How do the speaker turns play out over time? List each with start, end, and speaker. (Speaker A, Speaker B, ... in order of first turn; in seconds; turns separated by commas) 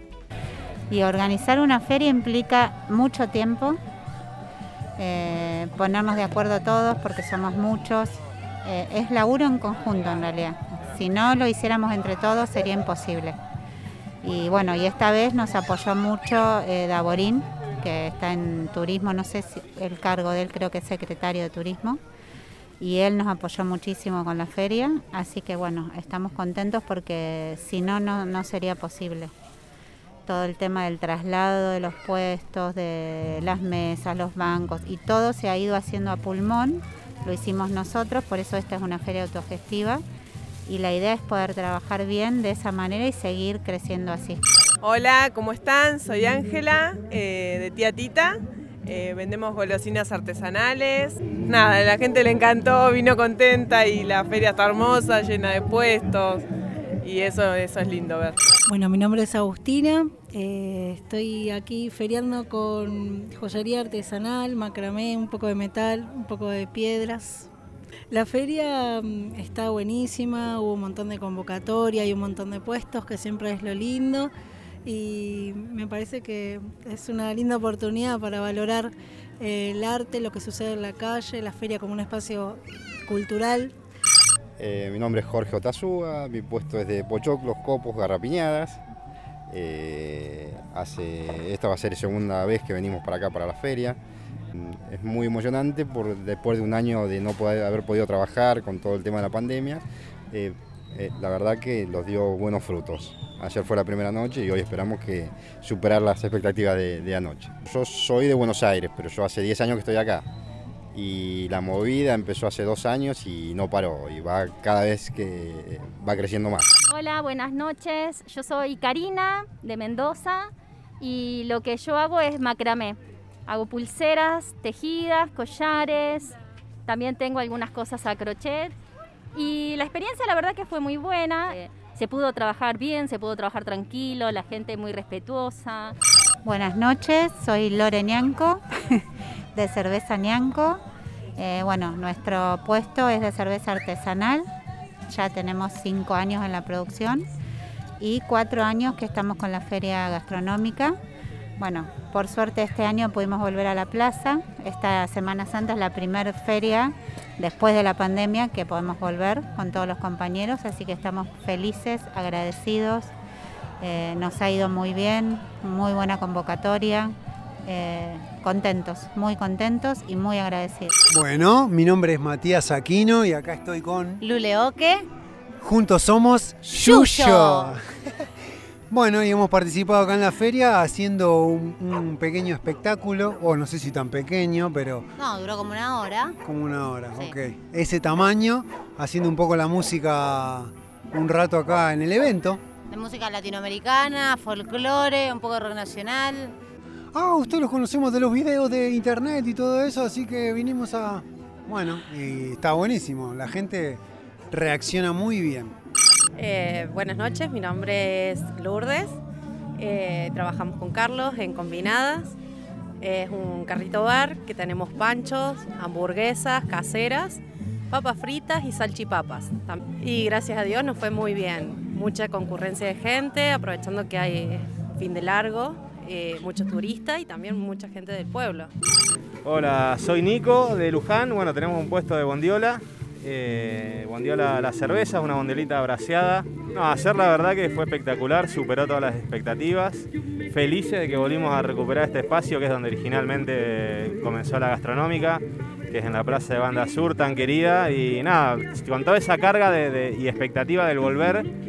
Speaker A: 0.9-3.8, Speaker A: 5.0-13.4, Speaker A: 14.2-22.0, Speaker A: 22.8-29.3, Speaker A: 30.3-40.0, Speaker A: 40.7-44.4, Speaker B: 44.8-56.4, Speaker B: 57.0-58.4, Speaker C: 58.7-67.5, Speaker C: 68.1-74.3, Speaker C: 74.8-83.7, Speaker D: 84.6-88.8, Speaker D: 89.5-94.0, Speaker D: 94.5-110.3, Speaker D: 110.9-116.7, Speaker E: 116.9-120.5, Speaker E: 121.0-126.3, Speaker E: 126.9-128.7, Speaker E: 129.3-135.9, Speaker A: 136.4-138.6, Speaker A: 139.6-140.8, Speaker A: 141.4-144.5, Speaker A: 145.1-147.3, Speaker A: 148.0-151.0, Speaker A: 151.6-163.1, Speaker A: 163.8-170.9, Speaker F: 171.1-174.2, Speaker G: 174.2-175.1, Speaker F: 175.6-177.8, Speaker G: 176.7-177.7, Speaker F: 178.9-185.1, Speaker G: 185.2-186.4, Speaker F: 186.4-192.6, Speaker G: 192.9-196.5, Speaker F: 197.1-205.7, Speaker H: 219.3-220.4, Speaker H: 221.9-222.9, Speaker H: 223.6-225.1, Speaker H: 226.5-228.2, Speaker I: 229.4-251.5